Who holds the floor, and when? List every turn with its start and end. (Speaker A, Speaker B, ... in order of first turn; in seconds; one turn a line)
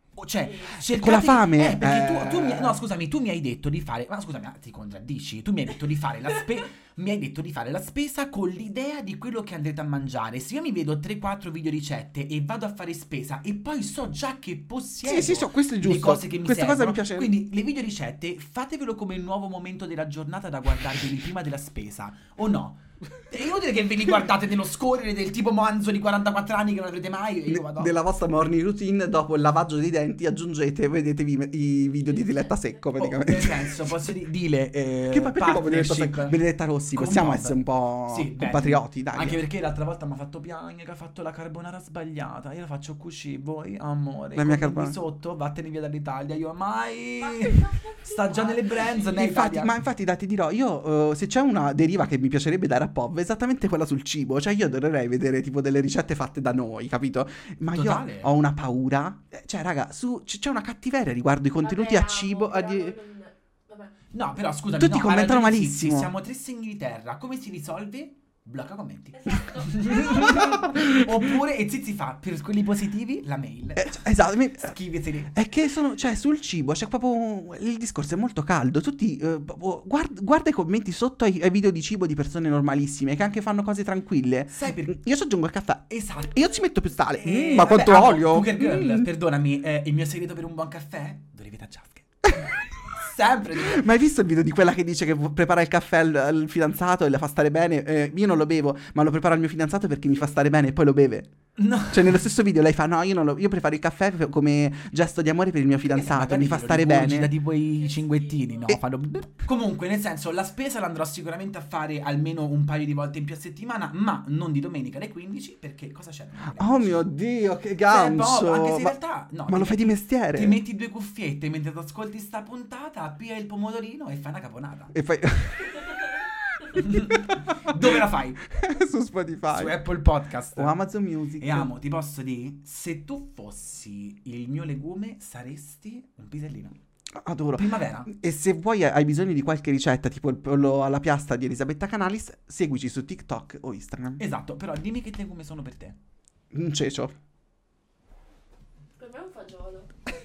Speaker A: 0.2-27.9
Speaker B: 0.4-0.8
Speaker C: 0.8-2.8
Speaker C: 15.0-17.3
Speaker C: 27.4-33.8
Speaker B: 32.0-32.8
Speaker A: 33.0-36.4
Speaker C: 35.1-39.4
Speaker A: 36.9-49.8
Speaker C: 44.4-45.0
Speaker B: 47.2-49.2
Speaker C: 49.1-62.9
Speaker A: 57.7-58.3
Speaker B: 61.6-63.9
Speaker A: 64.1-75.4
Speaker C: 64.8-66.1
Speaker B: 69.2-70.7
Speaker C: 70.2-71.3
Speaker C: 73.8-74.7
Speaker C: 75.3-89.1
Speaker A: 84.5-84.9
Speaker A: 85.9-86.5
Speaker A: 87.2-93.8
Speaker C: 93.6-101.3
Speaker A: 101.6-102.2
Speaker C: 101.9-107.3
Speaker A: 105.8-117.1
Speaker B: 107.8-108.8
Speaker C: 108.7-109.2
Speaker C: 116.6-119.0
Speaker A: 117.9-124.9
Speaker C: 119.5-120.6
Speaker C: 124.9-128.0
Speaker A: 126.7-128.4
Speaker C: 128.5-129.8
Speaker A: 129.5-130.8
Speaker C: 130.6-131.7
Speaker A: 131.4-136.8
Speaker C: 137.2-144.2
Speaker A: 137.5-138.1
Speaker A: 144.2-146.0
Speaker C: 146.5-147.1
Speaker B: 149.0-149.9